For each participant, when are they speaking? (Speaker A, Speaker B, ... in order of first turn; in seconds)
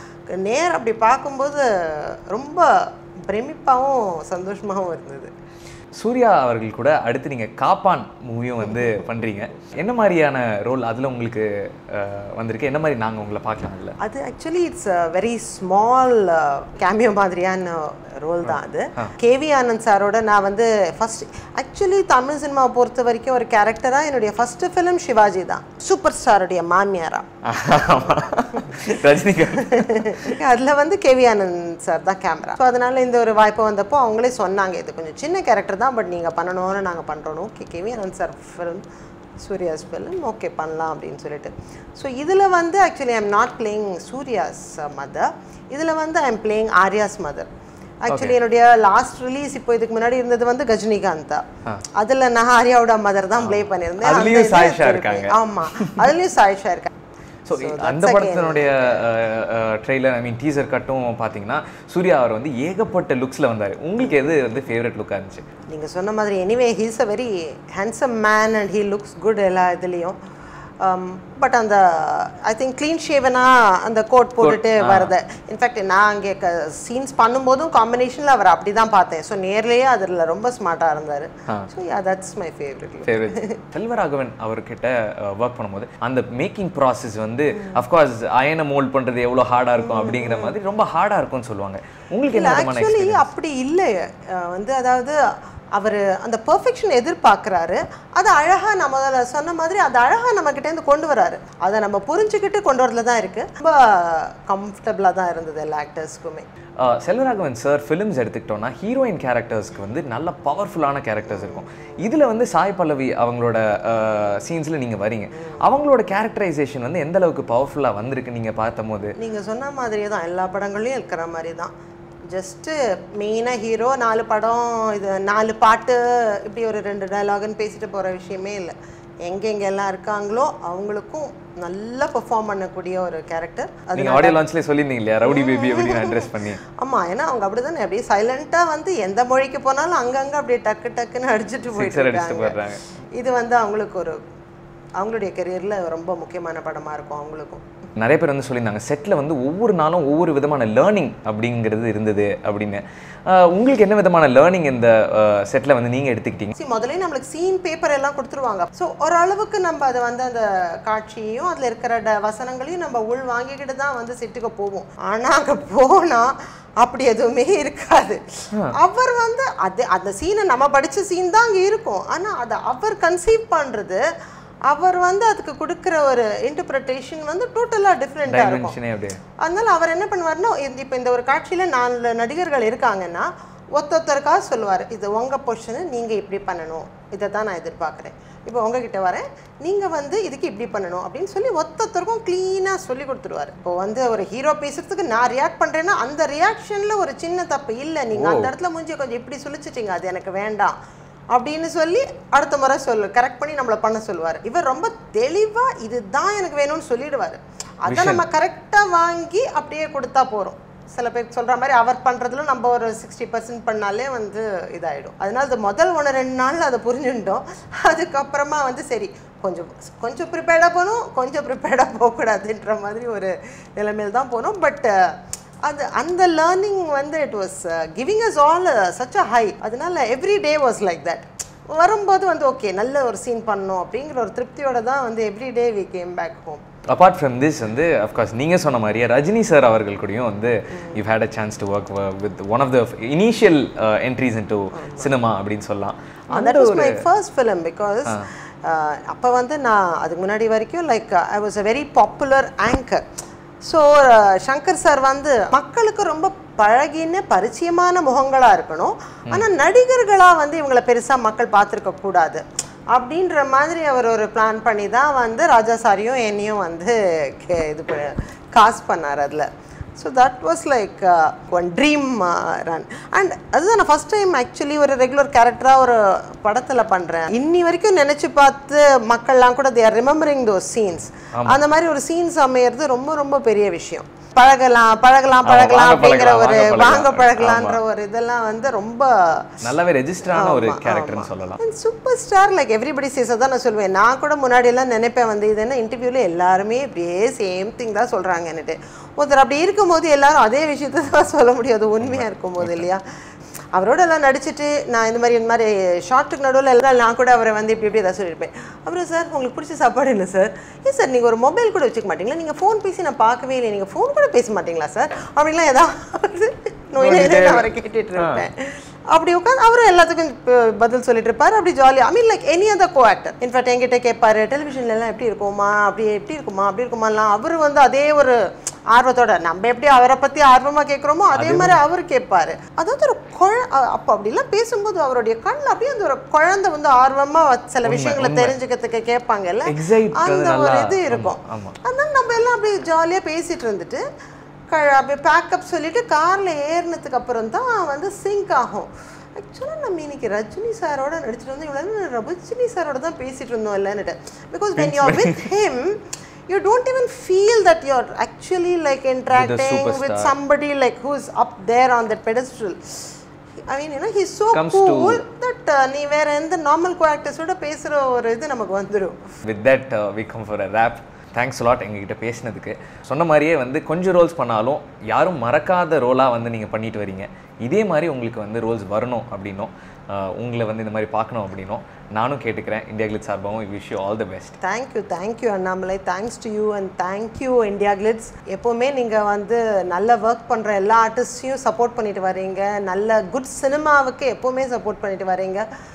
Speaker A: 0.3-2.7, 3.3-5.3, 14.0-27.3, 29.6-38.8, 39.4-47.5, 48.0-51.4, 52.0-56.9, 57.5-59.1, 65.7-70.2, 70.8-83.6, 89.8-90.5, 92.3-95.2, 95.7-106.5, 111.3-112.1, 119.2-121.7, 122.3-128.7, 129.2-134.4, 135.2-142.6, 143.2-144.2, 145.0-147.6, 156.5-168.2, 168.7-174.0, 174.7-178.8, 179.4-200.7, 201.3-225.1, 225.6-236.6, 244.7-245.1, 246.3-253.0, 253.6-269.5, 270.0-289.6, 290.2-303.0, 303.7-328.4, 328.9-344.0, 344.7-363.2, 363.7-369.2, 384.6-395.6
Speaker B: 5.9-13.9, 18.4-19.1, 27.4-30.3, 48.1-48.4, 53.4-56.1, 57.5-65.4, 74.4-75.1, 83.0-93.3, 106.8-119.1, 133.9-136.6, 141.7-142.8, 148.0-156.5, 178.2-179.2, 198.1-198.5, 207.8-208.2, 236.9-247.0, 281.3-281.6, 285.4-287.8, 289.6-291.6, 302.0-302.9, 316.9-318.4, 331.3-331.8, 337.8-338.6, 339.6-341.7, 354.8-355.5, 359.3-360.3, 364.5-365.2, 369.4-384.6